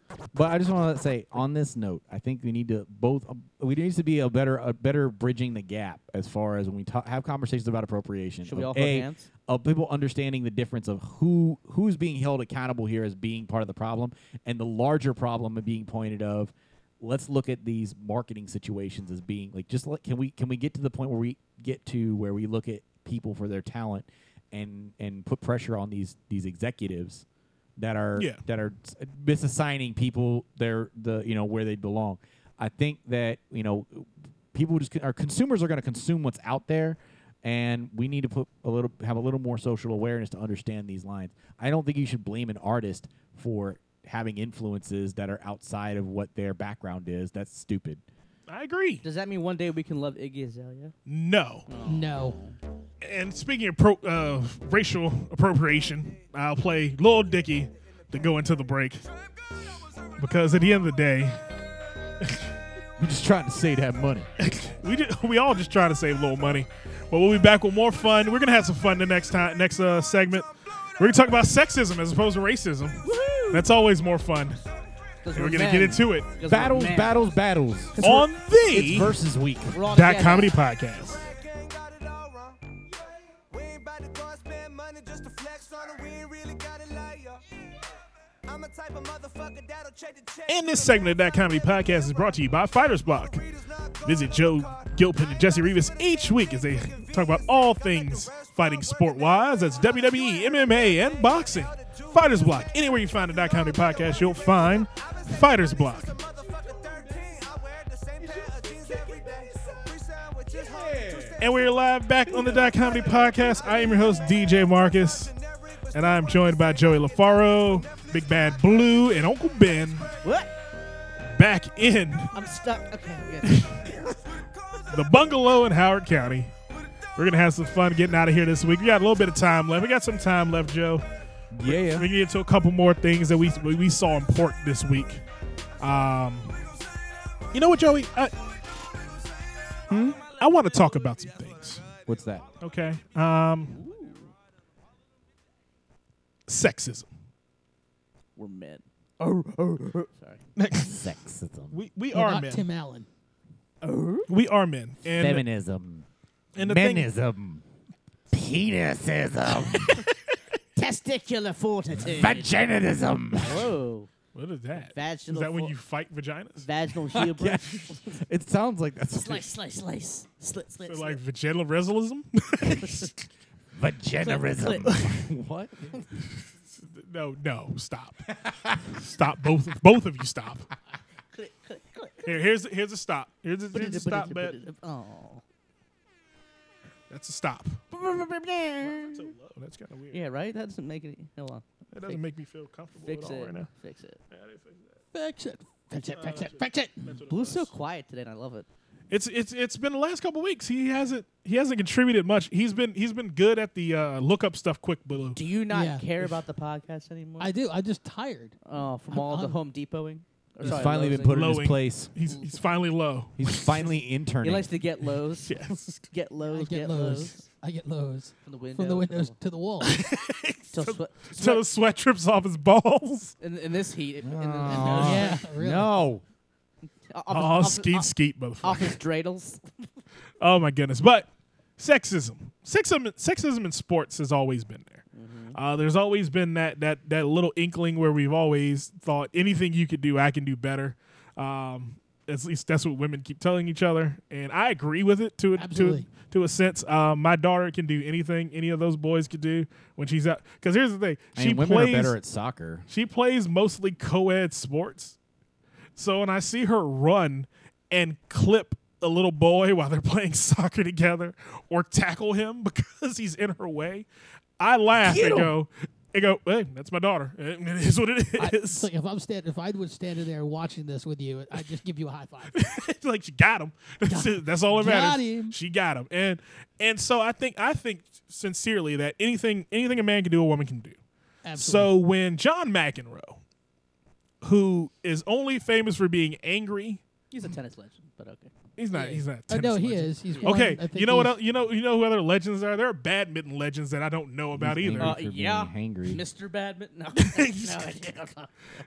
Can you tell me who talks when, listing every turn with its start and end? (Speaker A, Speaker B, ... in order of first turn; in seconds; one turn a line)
Speaker A: 0.3-27.2
Speaker B: 8.4-9.3
Speaker A: 27.8-48.0
Speaker C: 28.1-28.4
Speaker C: 48.5-49.0
Speaker B: 49.0-50.9
Speaker C: 51.1-51.6
Speaker B: 51.7-52.6
Speaker D: 51.8-52.4
Speaker C: 53.0-59.0
Speaker C: 60.2-61.4
Speaker C: 62.2-62.5
Speaker A: 63.0-64.3
Speaker C: 64.4-74.6
Speaker B: 73.0-73.7
Speaker B: 75.2-77.2
Speaker C: 75.3-76.3
Speaker A: 76.5-79.8
Speaker B: 77.9-78.3
Speaker C: 78.0-79.2
Speaker B: 79.7-80.6
Speaker C: 79.9-81.3
Speaker C: 90.5-106.2
Speaker A: 106.4-111.5
Speaker C: 111.4-115.3
Speaker C: 115.8-120.1
Speaker B: 120.2-120.5
Speaker C: 121.2-122.3
Speaker B: 122.3-124.3
Speaker C: 123.4-123.9
Speaker C: 124.9-126.5
Speaker C: 127.2-131.0
Speaker A: 131.5-132.1
Speaker C: 131.6-135.2
Speaker C: 135.8-136.6
Speaker C: 137.5-138.4
Speaker A: 139.9-140.2
Speaker C: 140.1-141.9
Speaker A: 142.0-142.5
Speaker C: 142.6-143.8
Speaker B: 143.7-144.3
Speaker C: 146.5-147.1
Speaker B: 148.3-150.4
Speaker C: 150.6-151.1
Speaker A: 150.8-151.8
Speaker C: 151.7-152.7
Speaker D: 152.1-153.1
Speaker B: 153.8-154.3
Speaker C: 154.3-155.4
Speaker A: 155.1-156.1
Speaker C: 156.6-157.1
Speaker A: 156.6-157.6
Speaker A: 158.3-160.0
Speaker C: 160.1-160.3
Speaker B: 160.8-162.5
Speaker A: 162.0-163.7
Speaker B: 163.4-164.1
Speaker C: 164.3-166.7
Speaker B: 164.8-165.7
Speaker B: 166.6-168.2
Speaker A: 167.1-169.5
Speaker B: 169.1-171.2
Speaker C: 170.8-173.2
Speaker B: 172.7-173.1
Speaker A: 173.7-176.0
Speaker B: 174.2-174.9
Speaker C: 174.8-175.2
Speaker C: 176.3-180.7
Speaker B: 181.3-182.3
Speaker C: 182.2-184.6
Speaker B: 183.7-185.4
Speaker C: 187.1-187.8
Speaker B: 187.9-189.2
Speaker C: 188.8-190.2
Speaker B: 190.1-192.2
Speaker C: 191.9-193.7
Speaker B: 193.0-194.2
Speaker C: 194.3-195.0
Speaker D: 195.1-197.1
Speaker C: 196.1-197.7
Speaker B: 197.3-198.7
Speaker C: 199.1-205.4
Speaker B: 205.3-207.5
Speaker D: 205.7-206.0
Speaker D: 207.4-208.6
Speaker B: 208.6-211.6
Speaker D: 209.1-209.6
Speaker A: 210.6-212.1
Speaker C: 210.6-213.9
Speaker B: 212.3-212.6
Speaker A: 213.4-214.7
Speaker B: 214.4-217.4
Speaker C: 215.4-216.0
Speaker D: 216.5-220.0
Speaker B: 218.4-219.3
Speaker C: 219.8-223.3
Speaker B: 220.7-221.6
Speaker B: 223.4-225.4
Speaker A: 224.2-226.2
Speaker D: 224.7-225.9
Speaker B: 227.1-228.1
Speaker C: 227.3-229.0
Speaker B: 228.6-229.9
Speaker C: 230.4-235.0
Speaker B: 235.1-235.6
Speaker C: 235.5-252.2
Speaker D: 245.6-246.1
Speaker A: 251.3-252.8
Speaker C: 252.9-255.2
Speaker C: 255.9-264.1
Speaker C: 264.6-268.9
Speaker A: 265.0-265.5
Speaker D: 268.4-272.6
Speaker C: 272.5-281.0
Speaker D: 274.1-275.6
Speaker D: 281.4-281.9
Speaker C: 281.5-283.4
Speaker C: 284.4-287.0
Speaker B: 287.3-288.5
Speaker C: 288.8-295.2
Speaker D: 288.9-291.4
Speaker A: 294.5-296.2
Speaker B: 295.0-298.6
Speaker C: 297.2-297.9